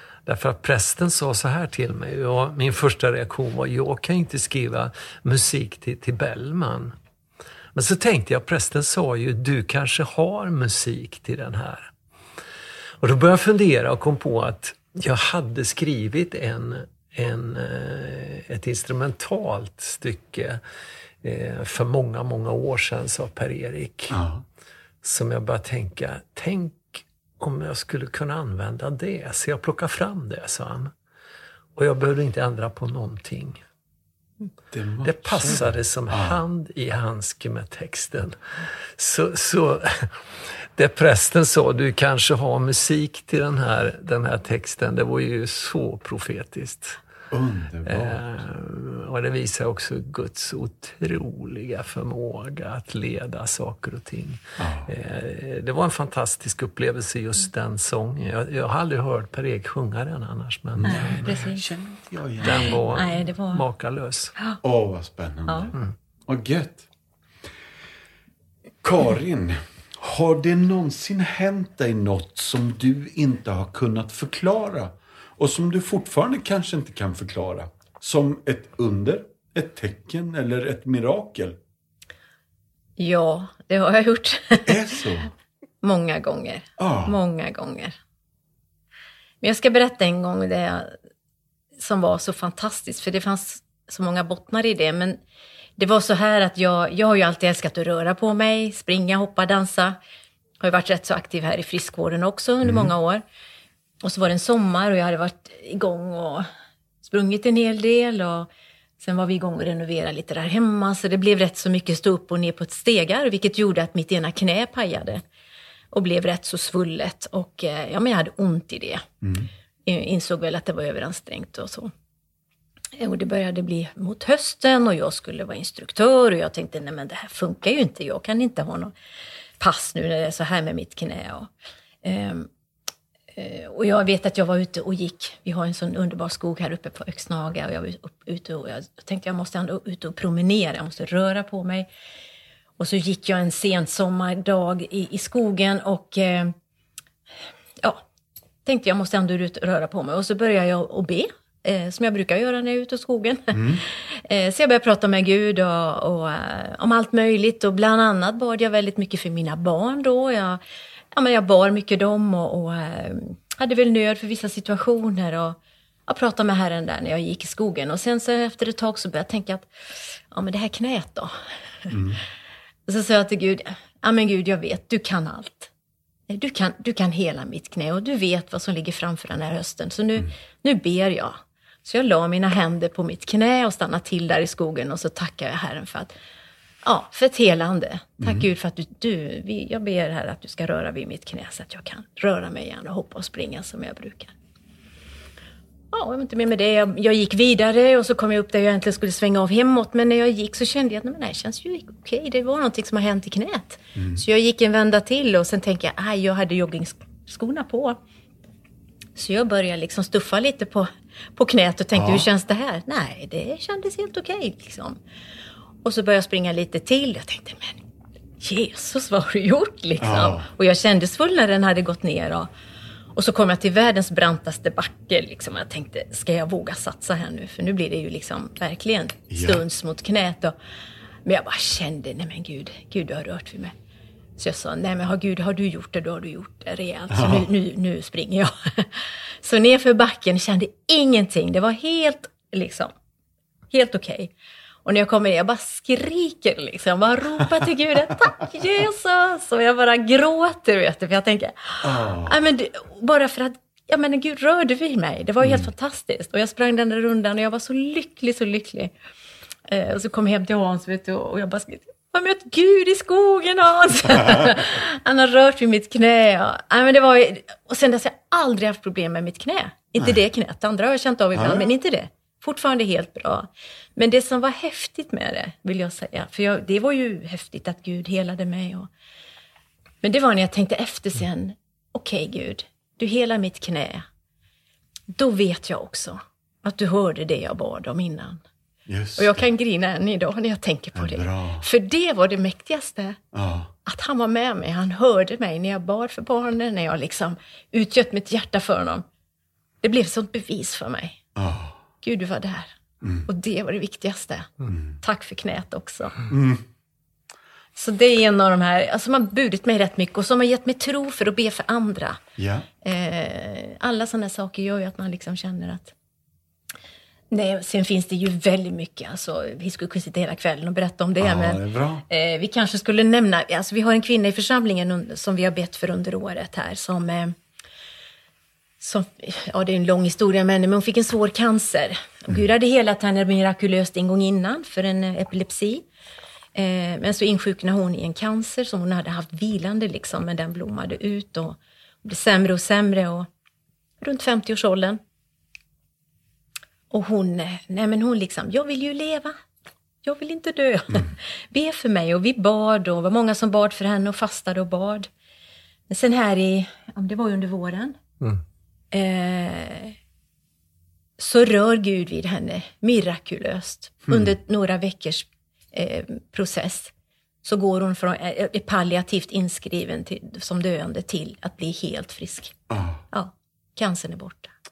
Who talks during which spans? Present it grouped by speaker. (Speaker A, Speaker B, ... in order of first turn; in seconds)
Speaker A: 0.3-7.0, 7.8-11.9, 13.0-20.6, 21.2-24.2, 25.0-30.9, 31.8-33.6, 35.0-38.4, 39.0-40.2, 40.8-47.0, 47.9-61.4, 62.4-64.3
Speaker B: 24.1-24.4, 34.7-36.4, 47.3-48.2, 54.6-54.9, 60.8-62.8, 64.6-65.8, 66.3-66.9, 68.8-81.6, 84.7-85.3, 86.8-87.2, 102.6-102.9, 119.2-119.5, 153.5-153.8, 171.9-172.2, 188.2-188.5, 204.0-204.2, 211.9-212.3, 220.0-220.5, 229.3-229.6, 237.1-237.5, 251.8-252.4, 255.4-255.7, 271.4-271.6, 288.9-289.4, 290.9-291.7, 293.3-293.7, 301.4-301.8, 303.0-303.3, 306.3-306.6, 312.4-312.7, 321.2-322.0, 372.7-373.0
Speaker C: 60.8-61.6, 62.4-63.6, 83.0-84.8, 85.8-88.0, 89.4-91.0, 91.8-95.2, 95.8-100.0, 100.6-103.2, 104.0-106.5, 107.0-115.2, 115.9-119.1, 119.8-121.9, 123.0-128.9, 129.6-131.5, 132.0-132.5, 133.3-141.9, 142.8-146.6, 148.7-160.6, 161.1-172.0, 172.9-175.7, 176.3-186.1, 186.8-194.3, 195.9-208.0, 209.2-215.0, 215.8-217.8, 218.4-222.5, 223.1-230.5, 231.2-233.7, 234.4-242.9, 243.7-244.3, 244.8-258.9, 259.7-278.9, 280.0-284.1, 285.1-288.4, 289.2-293.2, 293.9-299.0, 299.8-301.2, 302.0-302.8, 303.3-306.2, 307.8-312.2, 312.8-315.9, 317.3-327.4, 328.8-335.9, 336.6-343.3, 344.0-345.0, 346.9-349.4, 350.0-355.1, 355.9-358.0, 358.9-360.0, 361.2-372.6, 373.1-374.5